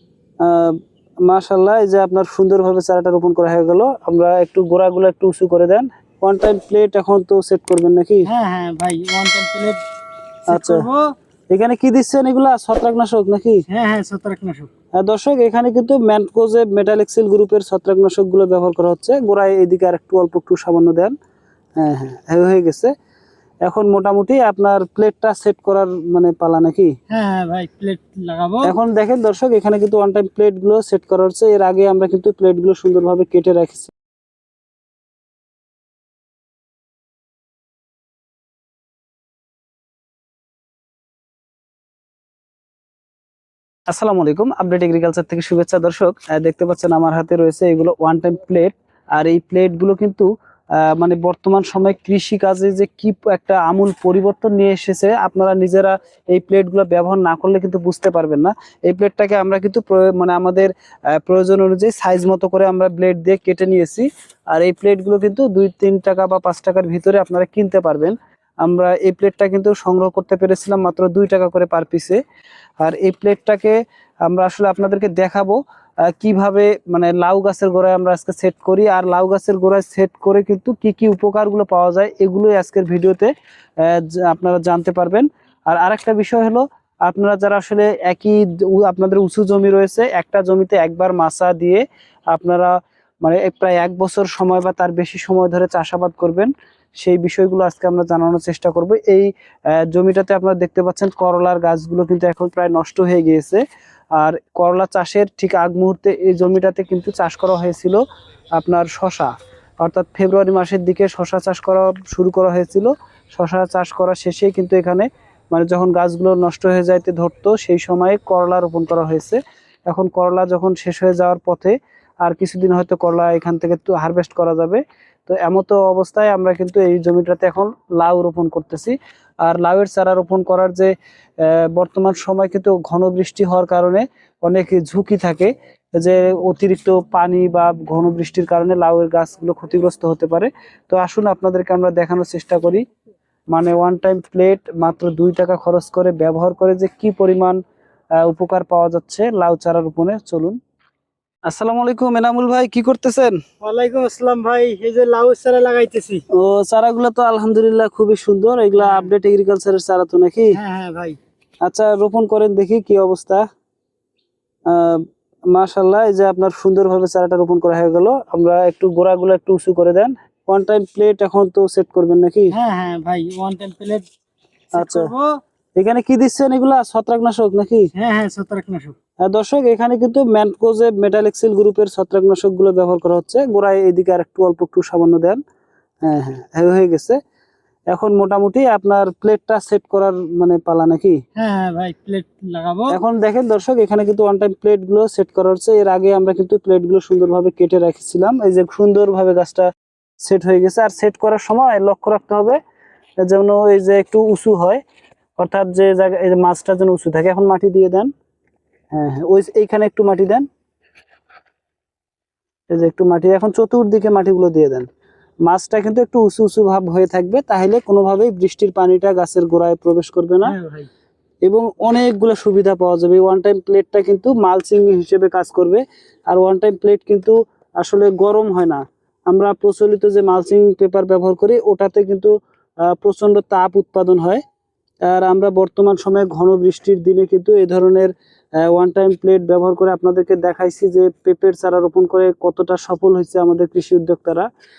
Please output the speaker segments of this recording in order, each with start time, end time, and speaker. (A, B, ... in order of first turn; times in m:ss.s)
0:00.4-0:08.3 A
0:08.3-0:09.8 B
0:10.5-0:11.1 B
0:10.5-0:10.9 A
0:11.5-0:13.6 A
0:13.7-0:14.7 B
0:15.0-0:21.1 A
0:21.8-0:22.9 A
0:23.7-0:26.9 A
0:27.1-0:28.8 B
0:28.6-0:33.9 A
0:43.9-0:50.3 A
0:50.8-1:12.2 A
1:12.8-1:43.6 A
1:44.2-1:48.0 A
1:48.6-2:22.8 A
2:23.5-2:27.6 A
2:28.2-2:30.6 A
2:31.5-2:33.4 A
2:33.6-2:36.2 B
2:36.3-2:40.6 A
2:38.8-2:39.1 B
2:40.5-2:41.2 B
2:41.6-2:43.4 A
2:44.7-2:52.6 A
2:52.5-2:54.1 B
2:54.8-2:55.3 B
2:54.8-2:55.1 A
2:55.8-2:57.9 A
2:58.0-2:59.0 B
2:59.2-3:05.4 A
3:06.0-3:07.2 A
3:07.9-3:11.2 A
3:11.4-3:13.0 B
3:12.9-3:19.7 A
3:20.2-3:22.6 A
3:23.2-3:24.8 A
3:25.4-3:28.1 A
3:28.9-3:30.5 A
3:32.7-3:34.9 A
3:35.5-3:40.6 A
3:40.4-3:40.9 B
3:41.5-3:52.3 A
3:52.9-3:54.4 A
3:55.1-3:58.1 A
3:58.6-4:04.5 A